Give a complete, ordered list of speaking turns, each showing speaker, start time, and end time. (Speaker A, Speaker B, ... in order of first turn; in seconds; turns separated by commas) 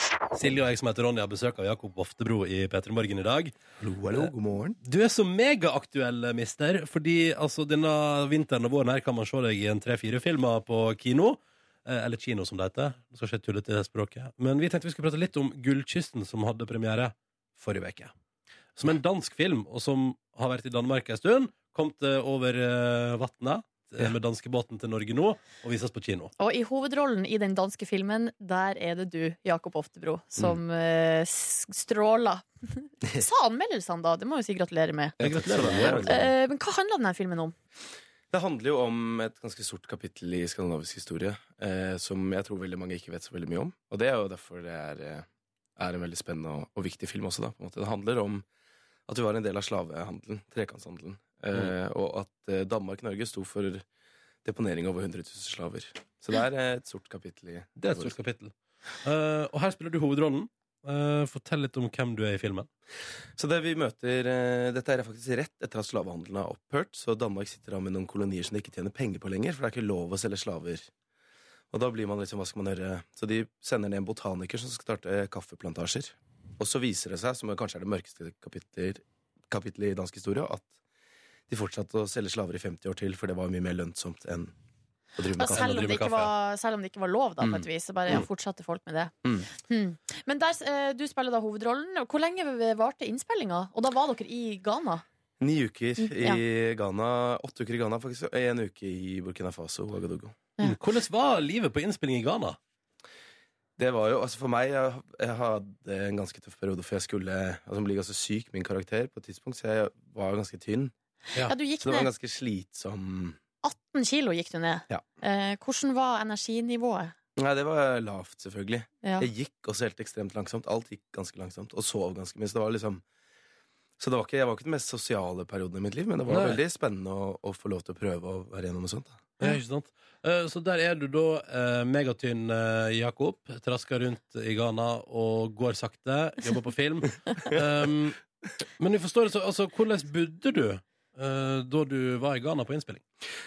Speaker A: 0.3-3.6, Speaker B: 3.8-4.8, Speaker A: 4.8-18.1, Speaker A: 18.8-26.3, Speaker C: 26.4-35.2, Speaker B: 35.2-36.3, Speaker A: 35.2-36.3, Speaker C: 36.0-37.5, Speaker B: 38.3-45.2, Speaker B: 45.8-48.5, Speaker B: 49.1-53.8, Speaker B: 54.4-58.1, Speaker A: 57.8-62.7, Speaker B: 63.4-70.9, Speaker B: 71.7-80.7, Speaker B: 81.5-84.5, Speaker B: 85.2-85.9, Speaker C: 85.4-95.0, Speaker A: 85.5-86.3, Speaker B: 87.4-88.2, Speaker B: 89.2-89.5, Speaker B: 95.4-100.3, Speaker C: 96.0-96.4, Speaker A: 100.6-102.6, Speaker B: 103.8-110.9, Speaker C: 111.5-112.1, Speaker B: 111.8-113.4, Speaker C: 113.6-117.1, Speaker B: 117.4-123.0, Speaker C: 119.0-119.3, Speaker B: 124.0-129.3, Speaker A: 126.3-126.6, Speaker A: 129.4-138.2, Speaker A: 138.8-143.0